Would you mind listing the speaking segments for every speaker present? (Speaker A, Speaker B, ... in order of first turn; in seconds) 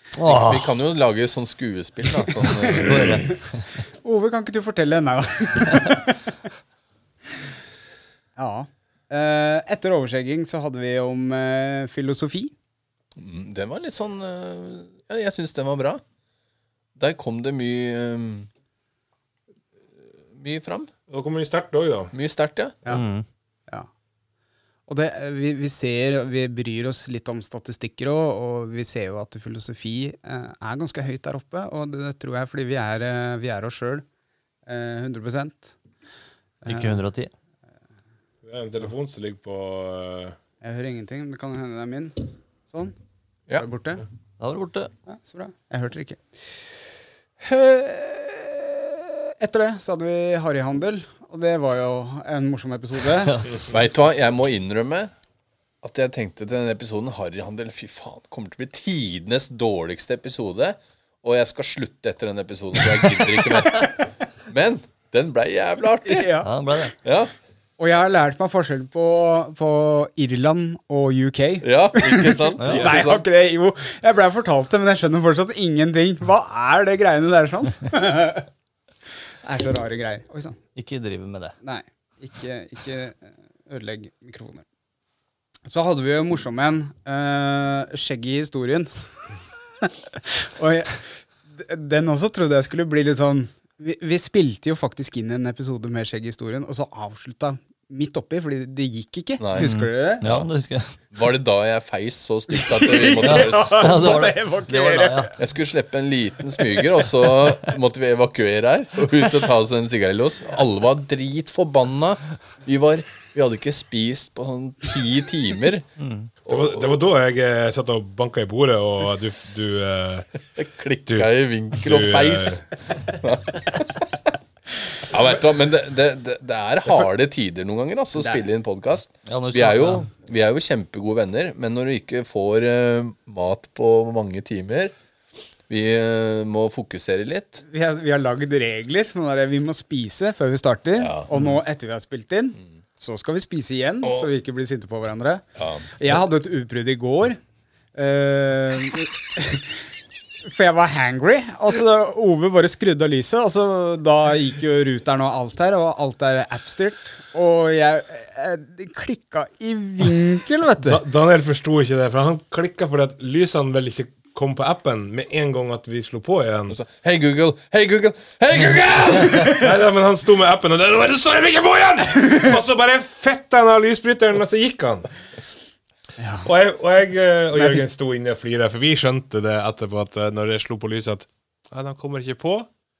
Speaker A: 0.1-0.7, 2.7-3.6, 22.9-23.2, 36.6-37.3, 44.4-44.9, 66.4-66.9, 72.6-72.9, 80.8-81.5, 99.5-100.9, 103.2-105.3, 116.0-116.3, 129.2-130.1
Speaker B: 0.3-3.3, 13.2-16.0, 17.0-18.5, 20.3-20.9, 22.1-22.8, 53.7-55.1, 55.8-66.4, 67.0-67.3, 71.6-73.2, 99.4-99.7, 100.2-100.5, 101.1-104.3, 105.4-115.8, 116.5-116.9, 120.5-124.0, 125.0-134.9, 135.7-137.6, 141.0-141.6, 144.0-144.3, 145.6-145.9, 166.7-169.5
Speaker C: 2.5-3.4, 4.0-6.3, 8.4-12.5, 24.9-34.0, 34.6-35.8, 36.6-37.0, 40.6-42.9, 43.6-44.0, 45.1-46.2, 47.4-53.5, 66.0-66.8, 67.8-78.5, 79.4-80.6, 81.6-84.6, 85.7-88.9, 89.8-100.2, 102.5-105.3, 128.2-128.4, 137.7-145.4, 145.9-147.4, 147.9-149.8, 150.4-161.0, 176.2-176.5, 177.5-177.8
Speaker D: 21.1-22.1, 38.4-40.4, 116.4-120.3, 121.1-122.6, 160.8-166.8, 169.4-175.1, 176.4-182.7